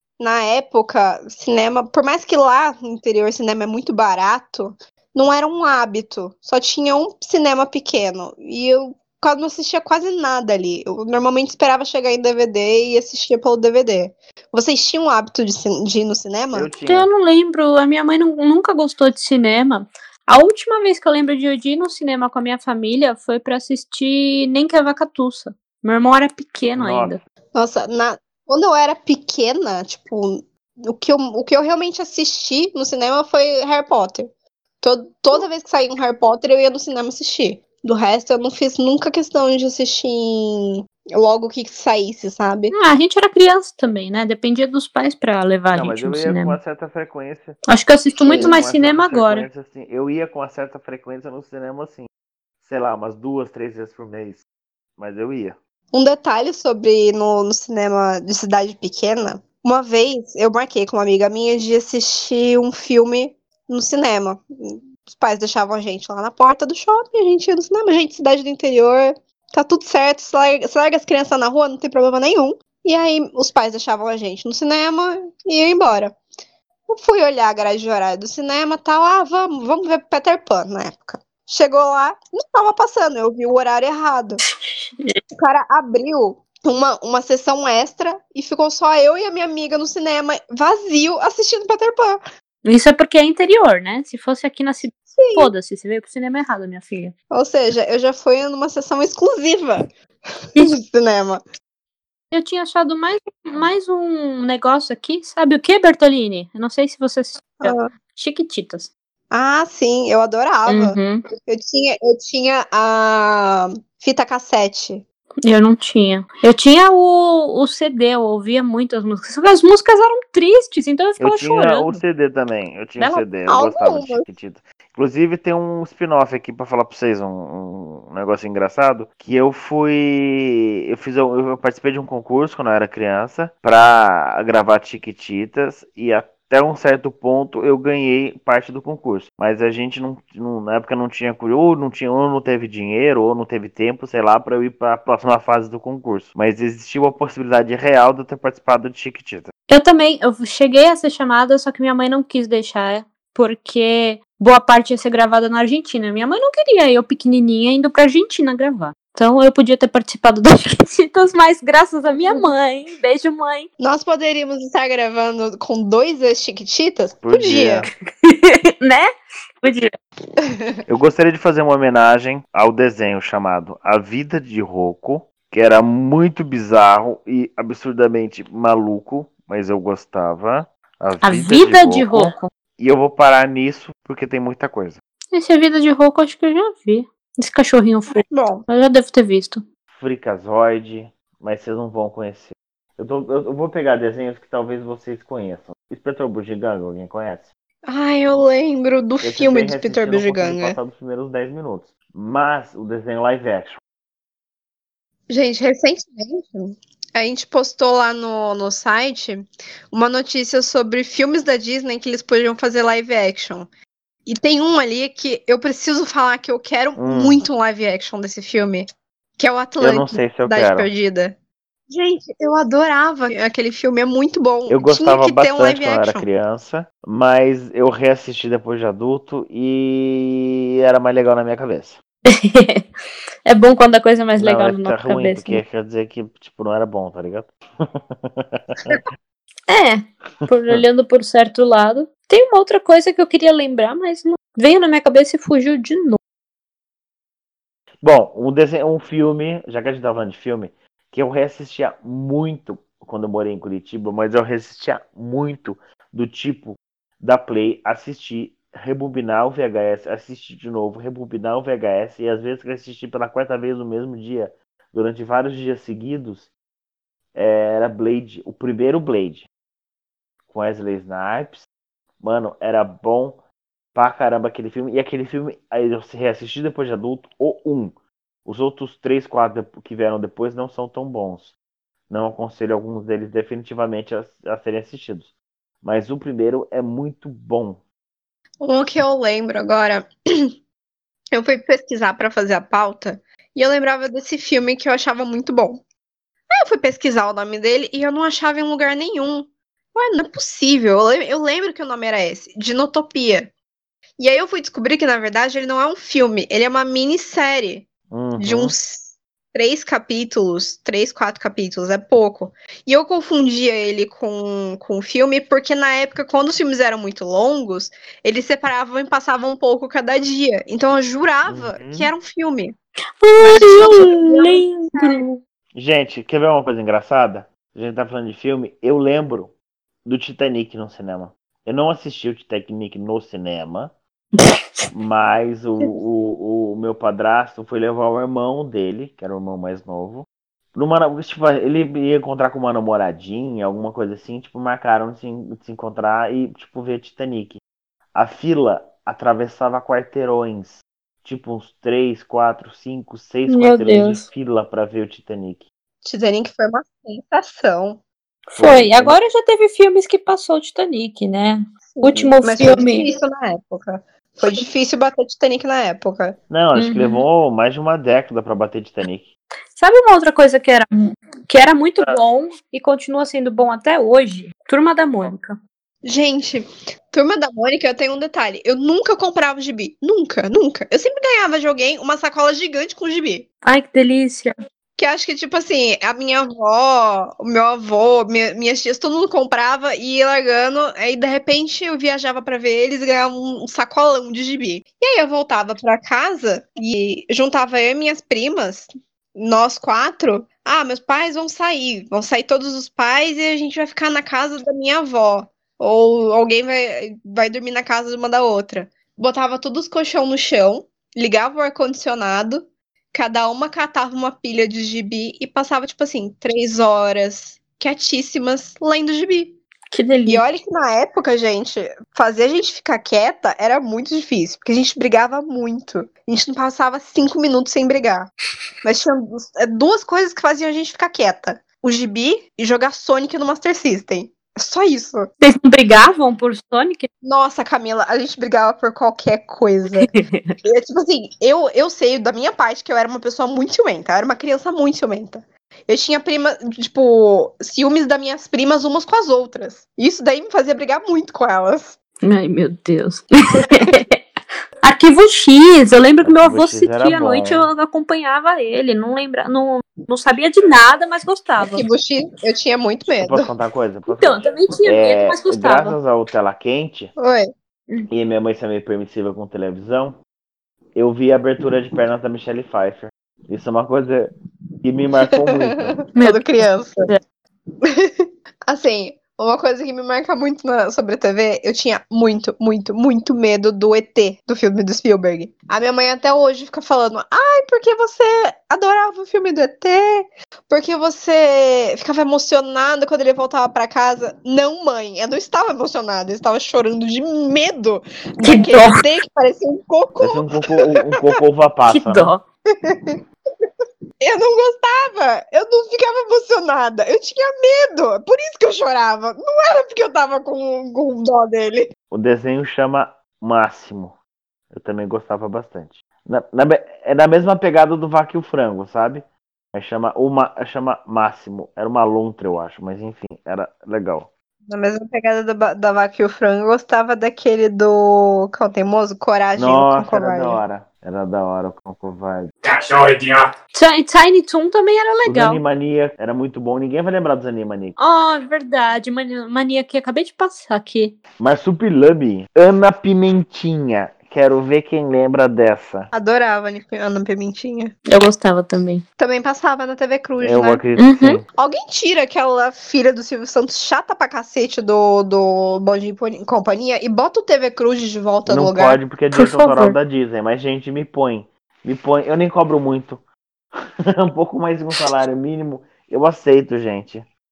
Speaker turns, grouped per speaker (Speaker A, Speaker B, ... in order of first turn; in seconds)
Speaker A: 0.2-16.7, 27.6-34.3, 34.8-42.7, 48.2-48.6, 55.9-76.2, 76.9-84.4, 85.3-92.2, 95.2-95.5, 97.3-99.9, 100.6-101.4, 107.6-107.9, 109.3-115.0, 123.5-124.3, 162.2-162.5, 163.8-167.9, 170.4-170.8, 188.3-188.7, 197.9-200.8, 205.3-213.7, 214.3-221.4, 221.9-226.3, 288.6-290.5, 291.3-295.8, 296.5-303.5, 304.2-322.8, 323.4-325.2, 356.0-358.0, 361.9-366.4, 376.0-383.5, 385.0-419.6, 420.3-428.3, 428.8-435.3, 437.2-440.1, 440.6-452.0, 461.6-463.5, 467.2-467.5, 475.2-477.1, 477.8-500.5, 502.8-503.7, 504.2-511.9, 524.7-530.6, 546.1-547.9, 549.2-550.8, 551.5-559.0
Speaker B: 16.5-17.1, 26.7-27.2, 45.7-47.6, 48.3-52.1, 52.6-54.4, 55.0-55.6, 121.2-149.5, 167.2-167.9, 170.9-185.0, 189.9-197.5, 199.2-203.8, 217.0-217.4, 219.8-220.9, 224.7-232.0, 234.4-239.0, 248.0-266.5, 267.4-269.5, 270.5-271.7, 272.2-273.4, 273.9-281.5, 282.1-287.8, 308.1-308.7, 321.5-322.1, 325.8-329.5, 330.1-333.9, 334.9-347.6, 348.1-355.6, 358.6-359.2, 366.5-369.3, 456.2-457.7, 463.2-467.1, 468.1-470.2, 470.9-474.3, 474.8-476.0, 500.2-502.3, 512.1-514.1, 514.7-524.3, 529.6-533.4, 535.3-538.0, 541.4-546.1, 550.4-551.5, 558.5-563.2, 563.8-567.2
Speaker C: 16.9-27.2, 42.7-46.6, 47.7-49.5, 84.7-85.2, 92.7-97.1, 102.3-108.9, 110.7-111.2, 115.5-122.0, 123.0-123.3, 149.7-163.7, 168.2-169.1, 169.6-169.9, 181.2-182.5, 185.3-189.6, 232.3-232.9, 233.5-235.6, 239.7-246.2, 323.2-325.4, 334.4-334.9, 353.5-354.2, 358.5-363.1, 366.8-367.2, 369.8-375.6, 383.6-384.5, 419.9-420.4, 435.4-437.1, 440.0-440.5, 452.2-454.2, 454.8-461.9, 464.1-466.0, 476.2-477.2, 498.4-499.0, 501.9-502.4, 533.7-535.6, 538.0-541.2, 548.1-549.0, 551.0-551.4, 559.4-560.0